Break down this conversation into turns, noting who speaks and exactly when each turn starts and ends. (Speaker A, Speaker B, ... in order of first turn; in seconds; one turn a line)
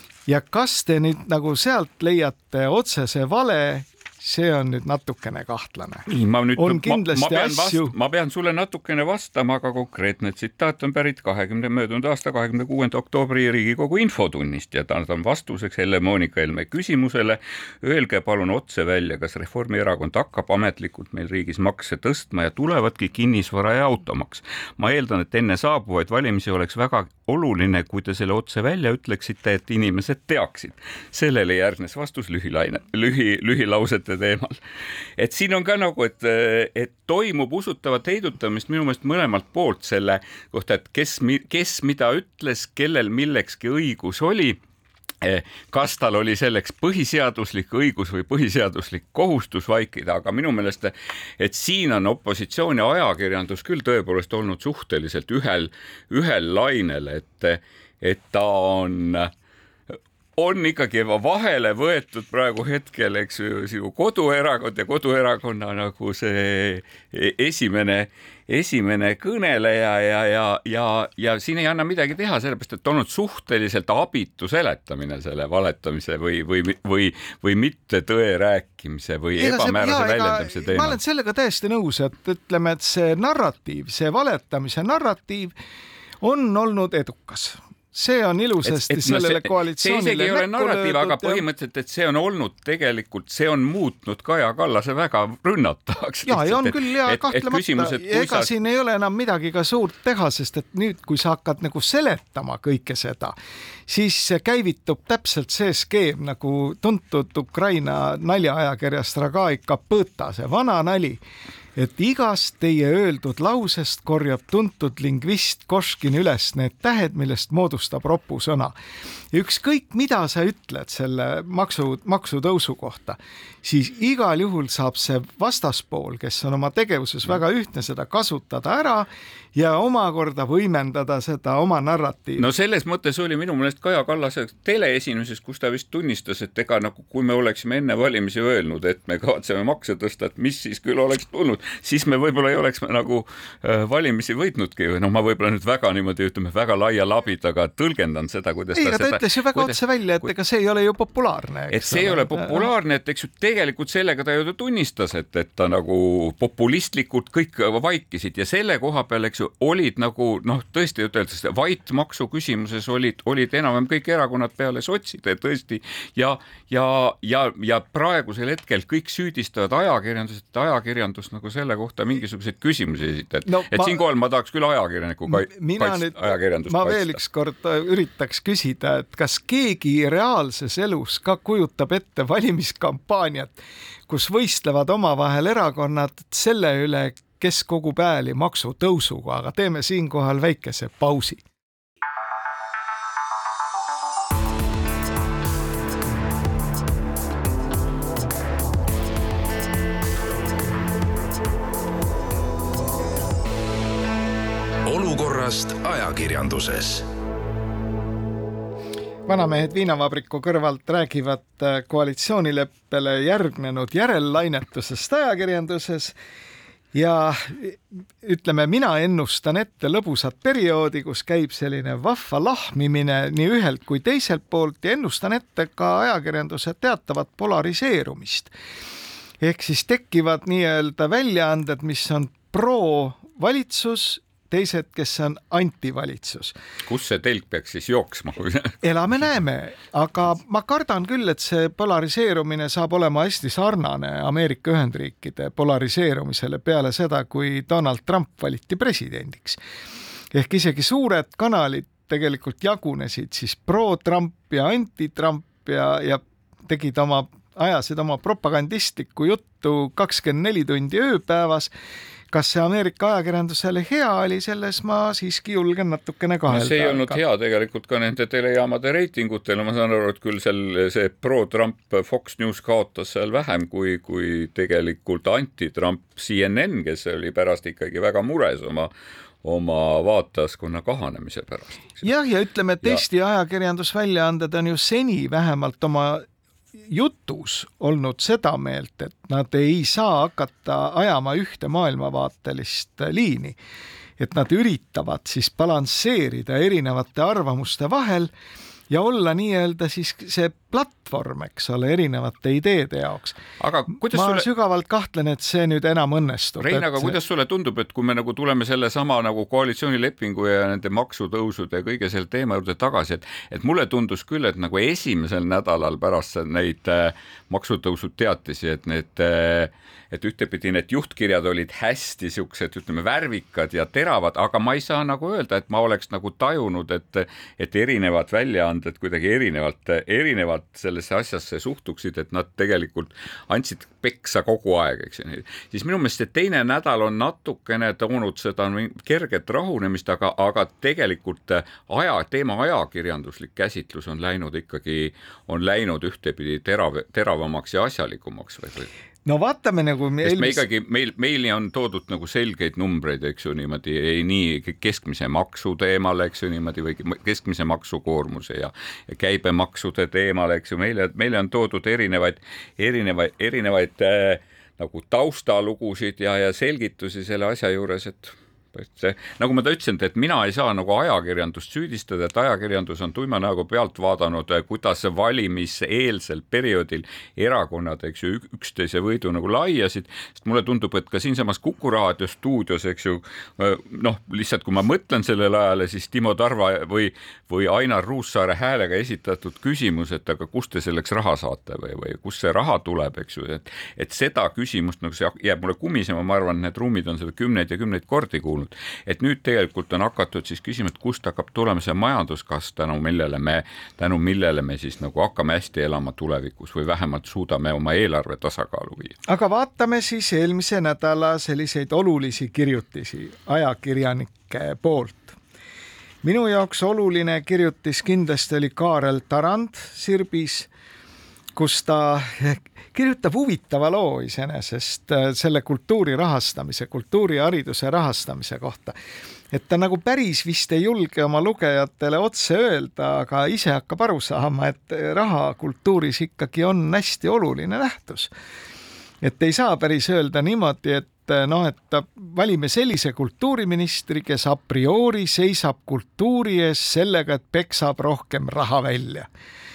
Speaker A: 0.3-7.9
Speaker B: 6.1-34.6
Speaker B: 35.2-44.6
Speaker B: 45.2-59.3
Speaker B: 59.9-81.0
Speaker A: 79.4-85.5
Speaker A: 86.2-91.4
Speaker B: 88.7-98.5
Speaker A: 96.3-103.4
Speaker A: 103.9-111.2
Speaker A: 111.8-118.7
Speaker A: 119.3-132.4
Speaker B: 132.4-149.8
Speaker A: 148.7-152.7
Speaker B: 151.7-177.2
Speaker A: 173.5-174.0
Speaker A: 175.3-183.6
Speaker A: 184.1-191.4
Speaker C: 204.8-207.1
Speaker A: 209.3-216.2
Speaker A: 216.9-228.5
Speaker A: 229.4-236.5
Speaker B: 236.9-238.8
Speaker A: 238.8-249.6
Speaker A: 250.3-261.7
Speaker A: 262.3-267.2
Speaker B: 266.5-282.0
Speaker A: 282.0-286.2
Speaker A: 286.9-293.6
Speaker A: 294.2-298.3
Speaker A: 298.9-303.4
Speaker B: 303.6-304.5
Speaker A: 304.0-307.2
Speaker B: 306.6-348.9
Speaker A: 349.2-350.6
Speaker B: 350.2-409.2
Speaker A: 409.3-415.4
Speaker A: 416.2-420.7
Speaker A: 421.6-429.0
Speaker A: 429.5-438.3
Speaker A: 439.2-449.3